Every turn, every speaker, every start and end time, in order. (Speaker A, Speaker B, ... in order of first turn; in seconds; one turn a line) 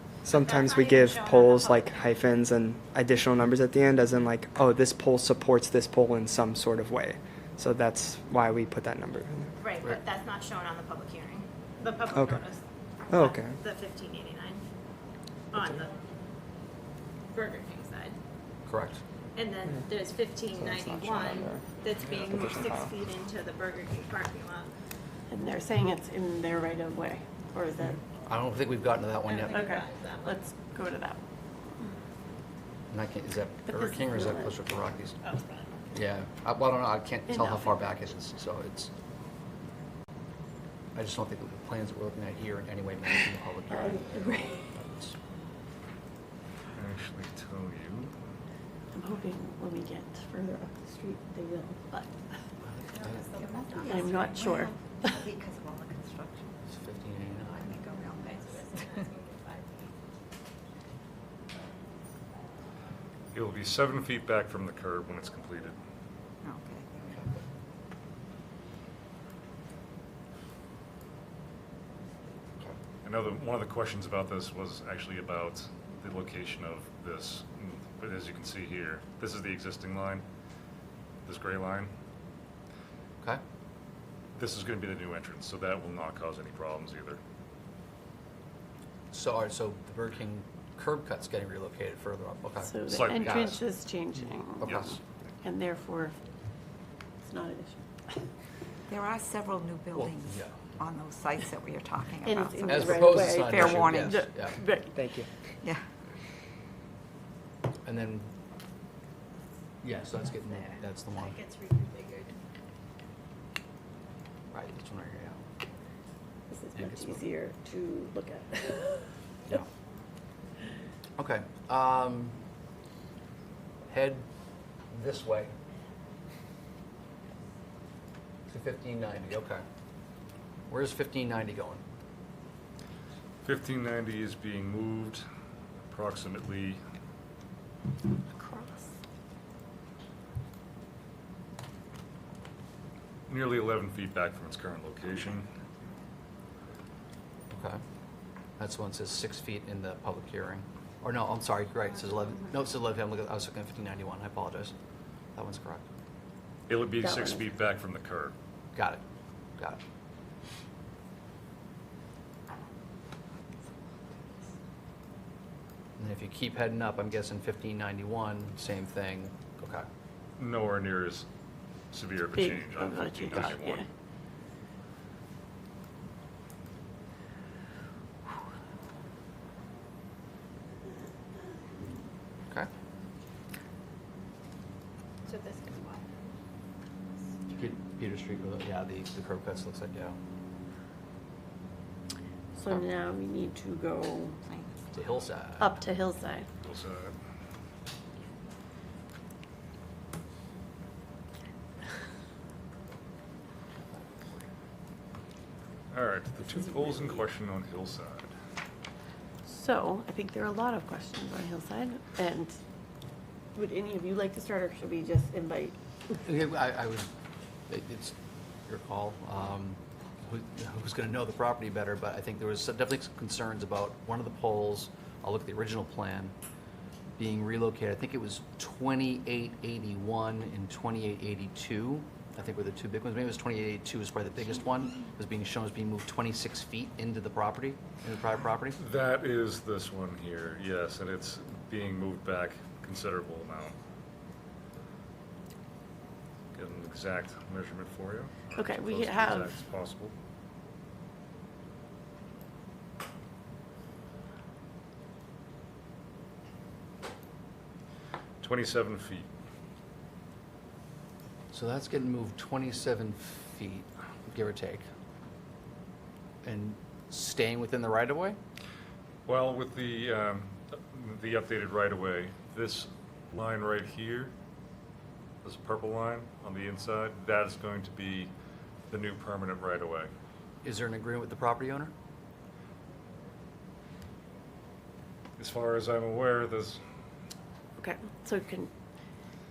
Speaker A: 0.2-9.5
Speaker B: 0.3-2.0
Speaker B: 9.6-14.7
Speaker A: 12.1-12.5
Speaker A: 13.1-13.6
Speaker B: 15.5-15.9
Speaker A: 15.6-15.8
Speaker B: 17.3-18.2
Speaker C: 18.7-19.0
Speaker B: 19.4-24.7
Speaker A: 20.5-21.6
Speaker D: 22.0-22.3
Speaker A: 22.2-22.9
Speaker E: 25.3-28.0
Speaker C: 28.2-29.6
Speaker B: 29.2-30.4
Speaker E: 29.5-31.2
Speaker C: 32.9-35.2
Speaker E: 33.7-34.6
Speaker B: 35.2-35.7
Speaker C: 35.9-38.9
Speaker E: 37.3-37.8
Speaker C: 41.0-45.2
Speaker E: 43.7-44.7
Speaker D: 46.8-48.1
Speaker E: 48.9-52.1
Speaker C: 52.6-53.3
Speaker F: 53.0-56.6
Speaker B: 53.5-53.9
Speaker E: 53.8-55.2
Speaker C: 56.7-57.8
Speaker B: 57.6-59.9
Speaker F: 57.7-59.1
Speaker D: 63.3-65.8
Speaker F: 66.4-66.9
Speaker D: 73.0-80.2
Speaker D: 81.3-81.9
Speaker D: 84.4-87.2
Speaker C: 89.1-93.6
Speaker E: 92.6-94.8
Speaker D: 92.9-93.6
Speaker C: 94.6-95.0
Speaker D: 94.6-95.0
Speaker E: 95.4-96.2
Speaker E: 97.2-97.8
Speaker F: 98.9-104.3
Speaker C: 100.0-100.8
Speaker E: 102.2-105.0
Speaker C: 102.7-104.6
Speaker A: 104.9-105.3
Speaker C: 107.8-108.3
Speaker C: 109.8-111.4
Speaker B: 110.3-112.4
Speaker C: 114.5-115.4
Speaker E: 116.5-119.6
Speaker C: 116.8-117.2
Speaker C: 121.2-122.4
Speaker C: 123.9-124.2
Speaker C: 124.9-125.5
Speaker C: 128.5-129.6
Speaker C: 130.7-131.8
Speaker D: 133.4-135.2
Speaker D: 135.9-136.8
Speaker D: 143.3-145.5
Speaker C: 147.5-147.8
Speaker C: 148.6-154.7
Speaker C: 155.3-155.8
Speaker D: 156.7-158.4
Speaker E: 157.0-157.4
Speaker C: 158.8-159.0
Speaker F: 164.1-164.5
Speaker C: 166.0-169.9
Speaker D: 170.4-171.3
Speaker D: 171.9-173.9
Speaker E: 172.3-173.9
Speaker B: 185.3-186.1
Speaker C: 187.6-190.2
Speaker E: 192.6-194.4
Speaker F: 194.5-194.8
Speaker C: 194.9-195.8
Speaker E: 195.6-196.5
Speaker D: 196.6-197.2
Speaker D: 205.9-208.3
Speaker E: 209.4-212.6
Speaker E: 213.6-216.2
Speaker C: 216.2-217.1
Speaker C: 217.7-218.2
Speaker C: 218.7-226.3
Speaker C: 227.2-238.8
Speaker D: 238.8-243.8
Speaker D: 246.5-250.1
Speaker E: 248.6-249.6
Speaker D: 258.4-259.3
Speaker C: 261.5-264.8
Speaker C: 266.4-268.4
Speaker D: 269.3-274.3
Speaker D: 275.4-278.3
Speaker D: 278.9-280.1
Speaker C: 280.6-281.9
Speaker D: 285.4-286.8
Speaker E: 287.8-288.7